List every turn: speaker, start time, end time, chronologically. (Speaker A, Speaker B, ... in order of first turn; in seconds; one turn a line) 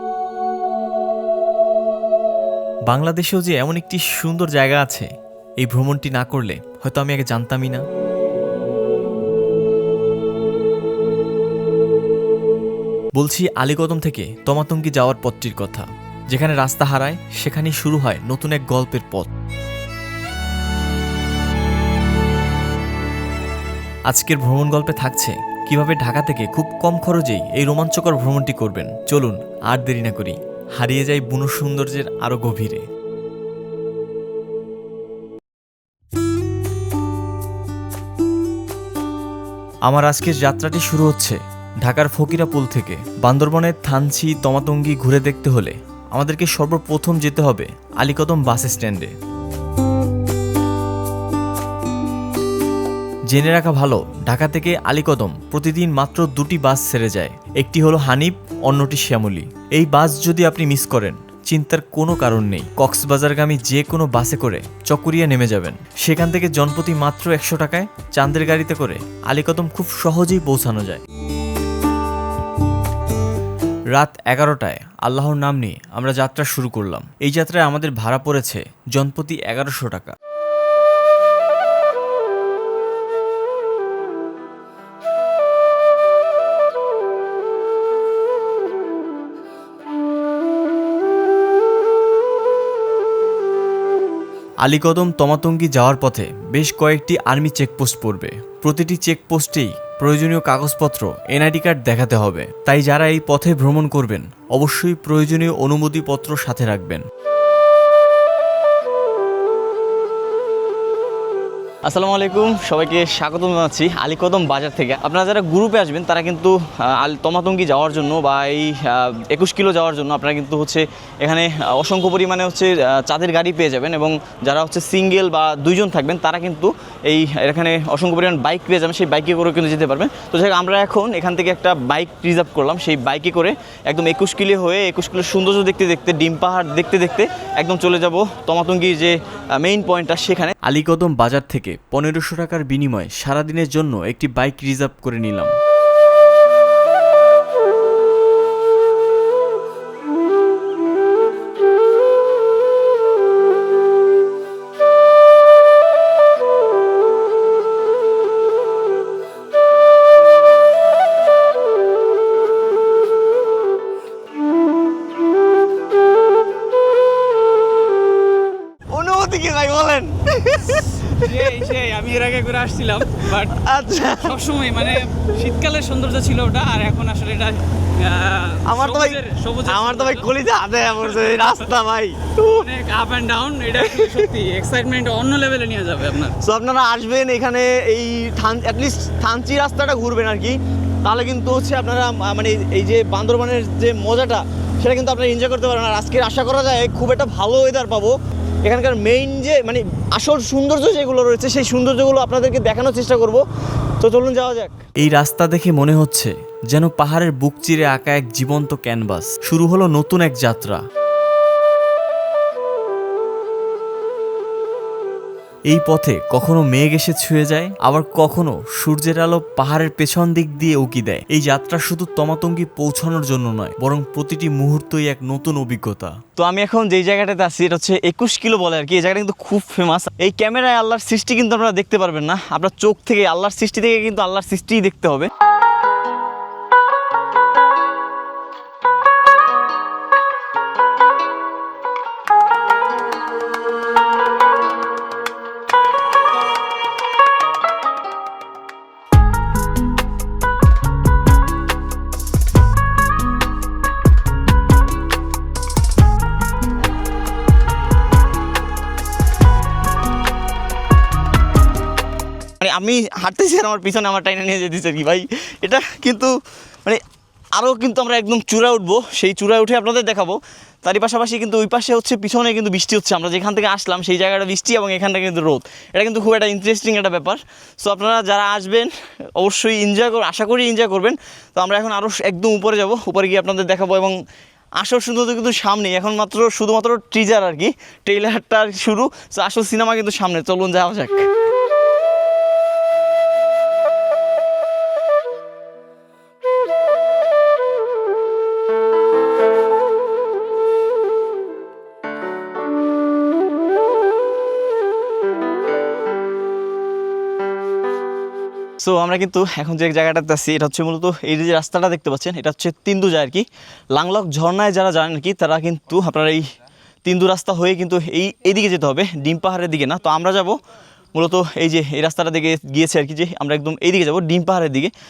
Speaker A: 2.9-5.1
Speaker A: 5.6-7.8
Speaker A: 13.1-19.3
Speaker A: 24.1-32.8
Speaker A: 39.9-49.1
Speaker A: 53.3-71.0
Speaker A: 73.9-80.2
Speaker A: 94.6-107.0
Speaker B: 111.8-140.5
Speaker A: 140.6-145.5
Speaker B: 168.9-171.5
Speaker C: 171.1-173.6
Speaker B: 173.4-174.4
Speaker C: 174.2-180.3
Speaker B: 174.9-175.2
Speaker B: 178.6-182.7
Speaker C: 182.5-186.3
Speaker B: 183.8-184.3
Speaker B: 186.3-203.4
Speaker B: 204.0-204.8
Speaker A: 205.0-210.8
Speaker A: 215.7-226.2
Speaker B: 226.3-235.3
Speaker B: 262.6-267.0
Speaker B: 267.5-284.2
Speaker B: 284.8-291.2
Speaker B: 308.8-316.5
Speaker B: 317.0-320.6
Speaker B: 321.1-324.9